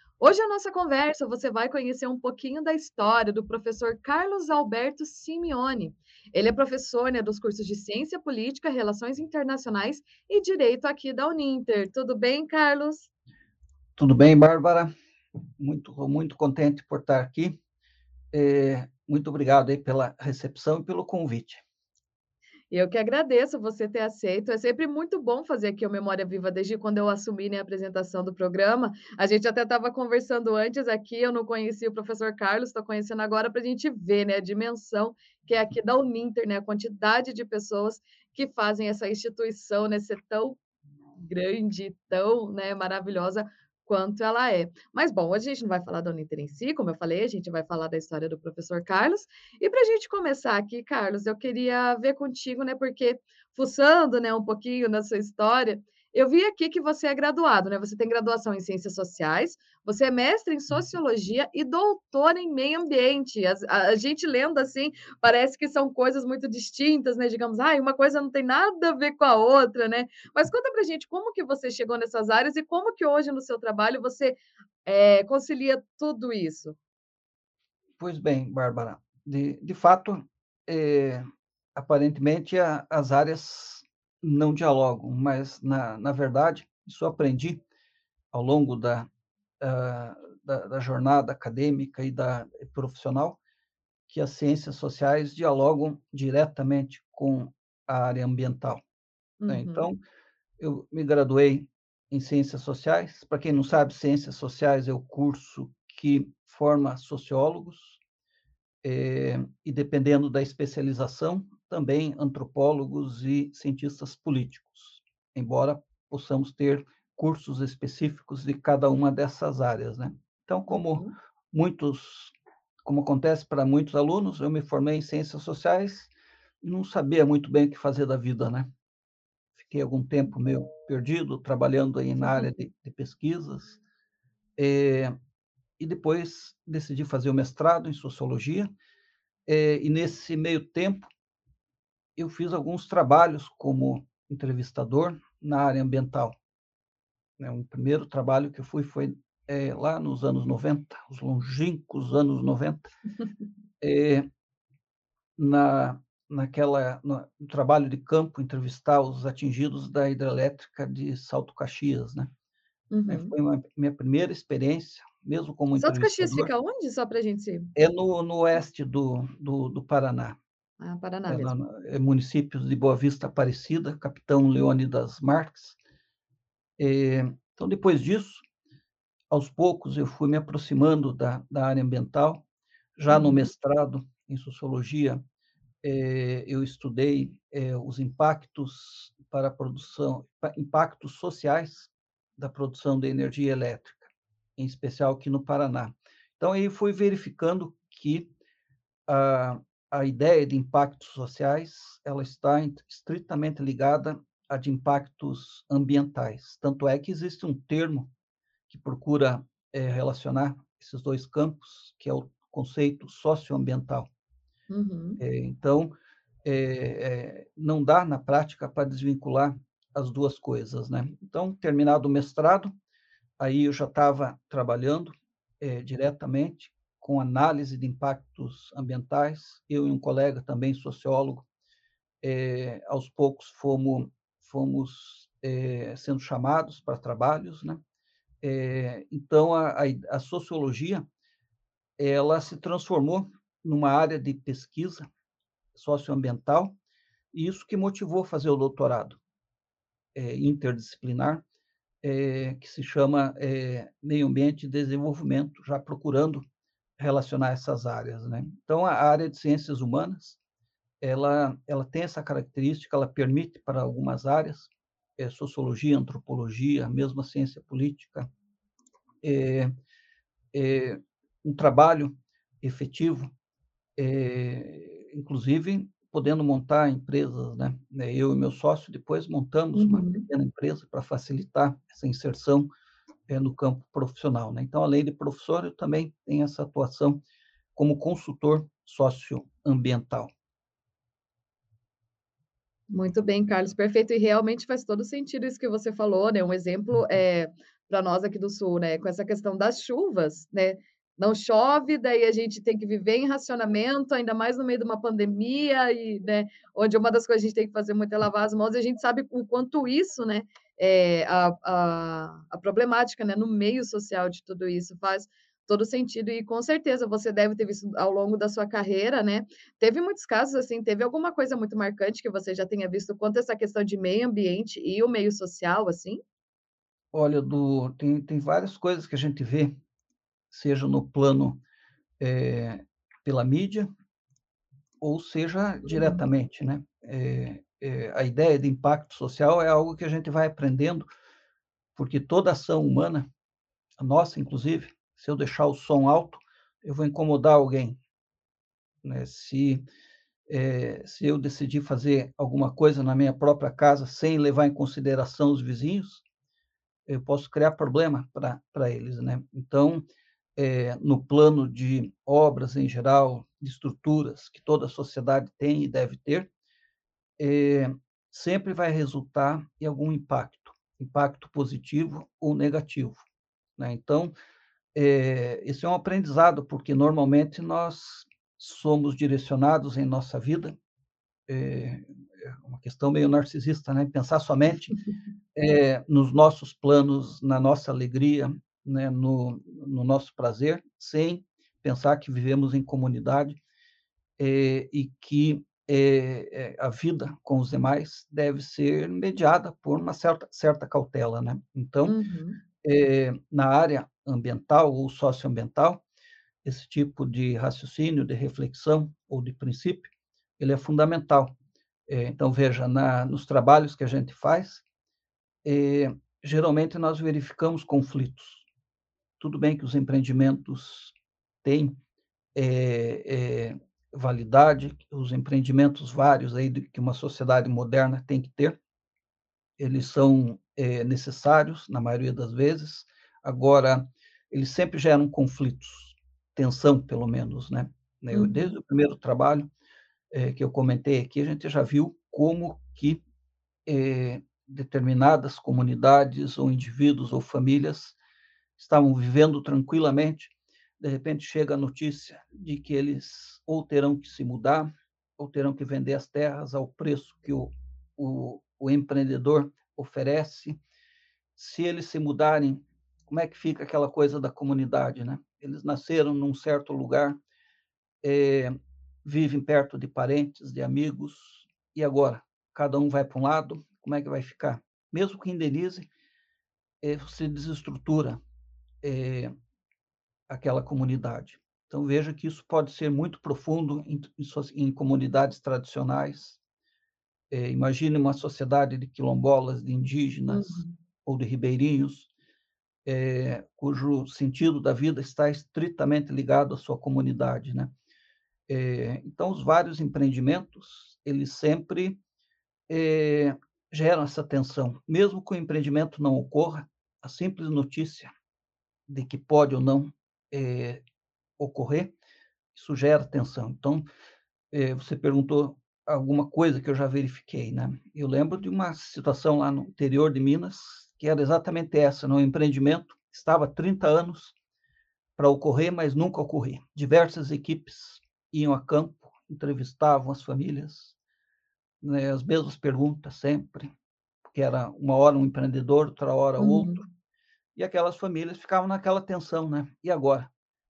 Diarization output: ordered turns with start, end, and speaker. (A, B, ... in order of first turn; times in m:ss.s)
0:00.2-0:13.1 A
0:14.0-0:14.9 B
0:15.6-0:17.6 B
0:18.3-0:21.6 B
0:22.7-0:40.6 A
0:41.2-1:16.8 A
1:18.0-1:21.2 B
1:21.7-1:27.6 B
1:28.3-1:29.1 B
1:29.6-1:33.4 B
1:34.1-1:38.8 B
1:39.4-1:39.9 A
1:39.5-1:40.0 B
1:40.6-1:48.0 B
1:48.8-2:02.3 B
2:00.7-2:01.1 A
2:02.8-2:06.1 B
2:06.6-2:08.7 B
2:09.5-2:13.8 B
2:14.6-2:15.1 B
2:15.8-2:18.7 B
2:19.5-2:21.1 B
2:22.2-2:26.3 B
2:27.4-2:32.9 B
2:33.8-2:34.2 B
2:35.4-2:42.3 B
2:42.9-2:43.3 A
2:43.1-2:46.5 B
2:45.8-2:47.7 A
2:47.7-2:50.4 B
2:50.8-2:51.5 A
2:51.3-2:55.8 B
2:56.8-2:58.4 B
2:59.3-3:02.4 B
3:03.0-3:05.2 B
3:03.1-3:03.5 A
3:05.8-3:18.3 B
3:19.1-3:28.1 B
3:28.7-3:34.1 B
3:34.7-3:35.2 A
3:35.2-3:35.9 B
3:36.4-3:42.7 B
3:43.4-3:51.5 B
3:52.2-3:57.8 B
3:58.4-4:01.0 B
4:02.0-4:05.0 B
4:05.7-4:06.7 B
4:07.3-4:09.2 B
4:10.1-4:11.4 B
4:12.0-4:16.4 B
4:17.0-4:20.4 B
4:21.0-4:28.3 B
4:29.2-4:29.7 B
4:30.5-4:33.3 B
4:34.0-4:42.7 B
4:39.7-4:40.2 A
4:43.3-4:47.2 B
4:47.8-4:50.3 B
4:52.9-5:26.2 A
5:27.1-5:29.8 B
5:30.5-5:31.6 B
5:32.2-5:33.9 B
5:35.0-5:41.1 B
5:35.9-5:36.2 A
5:42.0-5:43.3 B
5:44.0-5:48.0 B
5:49.0-5:49.8 B
5:50.5-5:56.2 B
5:57.1-6:00.0 B
6:00.6-6:06.5 B
6:07.4-6:13.2 B
6:13.8-6:14.3 B
6:14.9-6:20.7 B
6:21.5-6:24.9 B
6:25.5-6:33.6 B
6:34.4-6:42.2 B
6:42.1-6:42.6 A
6:42.8-6:46.0 B
6:46.6-6:51.5 B
6:52.1-6:54.8 B
6:55.6-6:58.6 B
6:59.4-7:02.0 B
7:02.5-7:08.8 B
7:09.8-7:19.7 B
7:18.3-7:18.7 A
7:20.3-7:23.2 B
7:23.8-7:28.2 B
7:28.8-7:40.8 B
7:41.6-7:47.4 B
7:48.2-7:56.1 B
7:57.0-7:58.4 B
7:59.0-7:59.5 B
8:00.5-8:06.6 B
8:07.5-8:12.3 B
8:10.5-8:11.0 A
8:13.0-8:17.9 B
8:18.7-8:22.2 B
8:22.9-8:28.3 B
8:29.1-8:31.0 B
8:31.6-8:32.1 B
8:32.7-8:34.0 B
8:34.7-8:44.5 B
8:45.4-8:51.2 B
8:52.0-8:53.9 B
8:54.4-8:57.0 B
8:56.6-8:57.0 A
8:57.8-9:00.5 B